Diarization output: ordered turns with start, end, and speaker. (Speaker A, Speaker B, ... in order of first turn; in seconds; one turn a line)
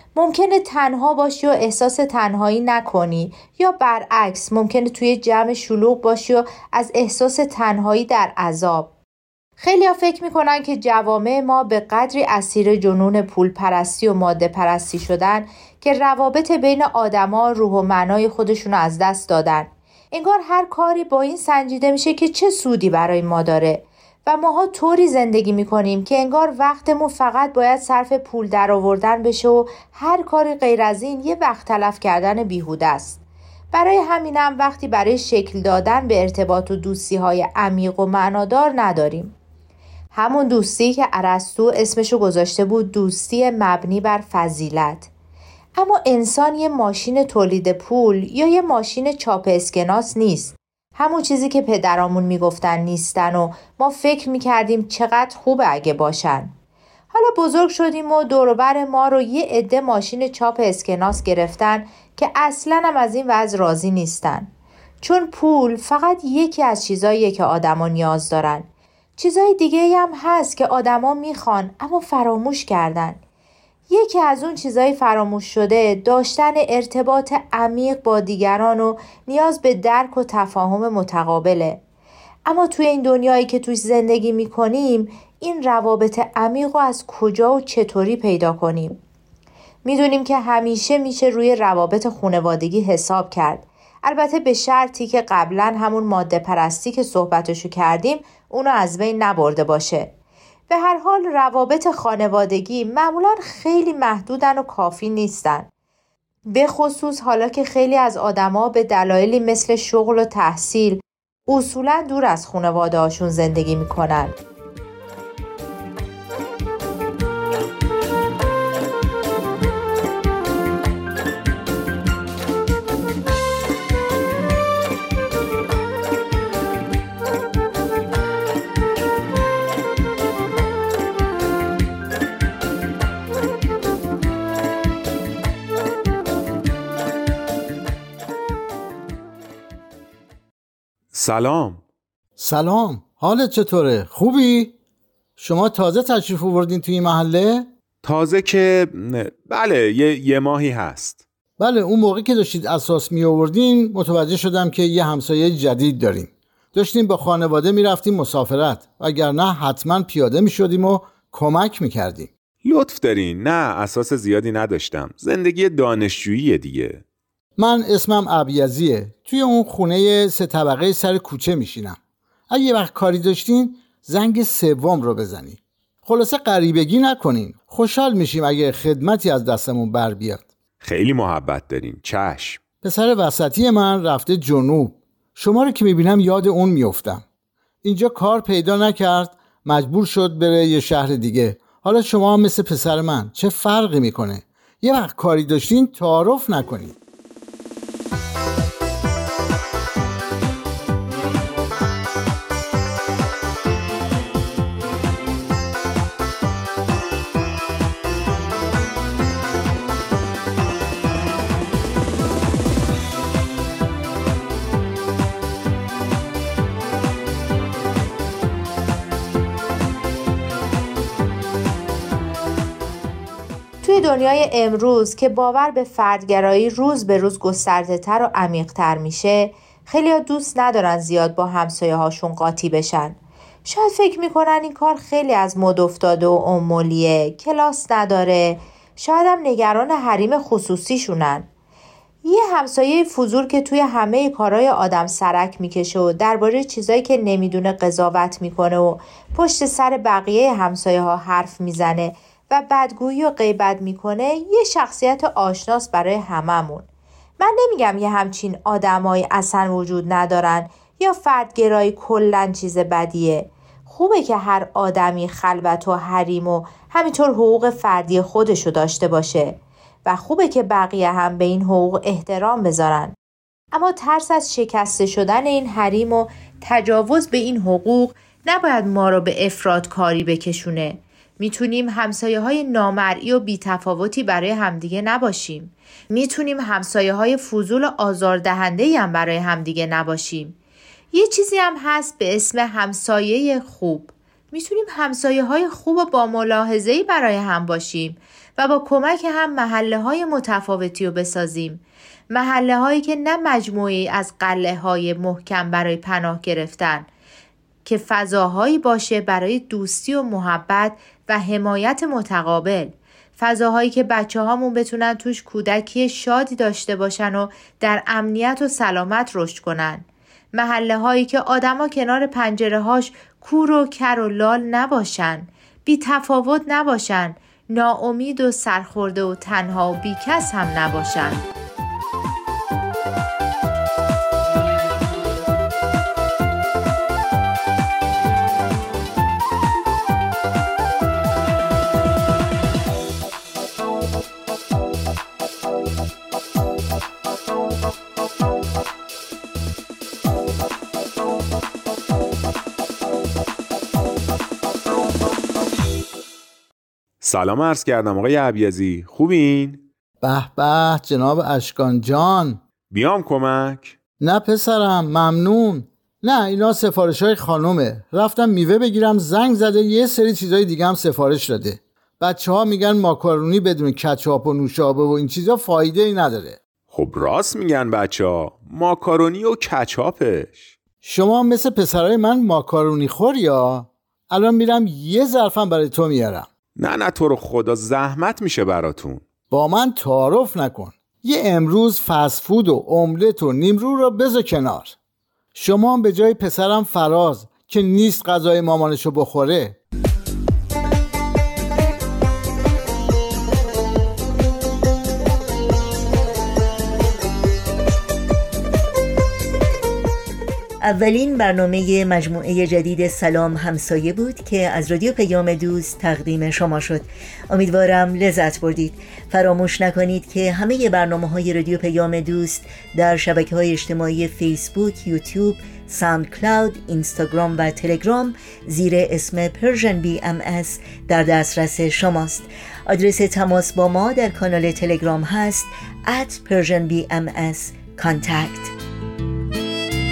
Speaker A: 0.1-8.9
Speaker A: 9.6-33.2
Speaker A: 33.7-39.4
Speaker A: 40.1-45.1
Speaker A: 45.8-56.5
Speaker A: 57.1-64.5
Speaker A: 65.0-73.2
Speaker A: 73.9-81.8
Speaker A: 82.5-89.0
Speaker A: 89.8-100.1
Speaker A: 100.7-105.7
Speaker A: 106.5-114.3
Speaker B: 141.1-141.8
Speaker C: 142.4-144.8
Speaker C: 145.4-147.7
Speaker B: 148.0-151.2
Speaker C: 151.6-162.3
Speaker B: 162.6-167.0
Speaker C: 167.6-172.0
Speaker C: 172.5-180.5
Speaker B: 180.8-182.6
Speaker C: 182.8-187.2
Speaker C: 187.8-197.0
Speaker A: 223.8-241.5
Speaker A: 242.2-256.9
Speaker A: 257.4-273.1
Speaker A: 273.7-290.6
Speaker A: 291.1-307.1
Speaker A: 307.9-331.4
Speaker B: 357.2-359.9
Speaker C: 360.2-362.6
Speaker B: 362.9-364.0
Speaker C: 364.2-376.6
Speaker B: 376.9-380.7
Speaker C: 381.0-386.5
Speaker B: 386.8-389.3
Speaker C: 389.5-395.0
Speaker C: 395.6-399.8
Speaker D: 410.8-438.7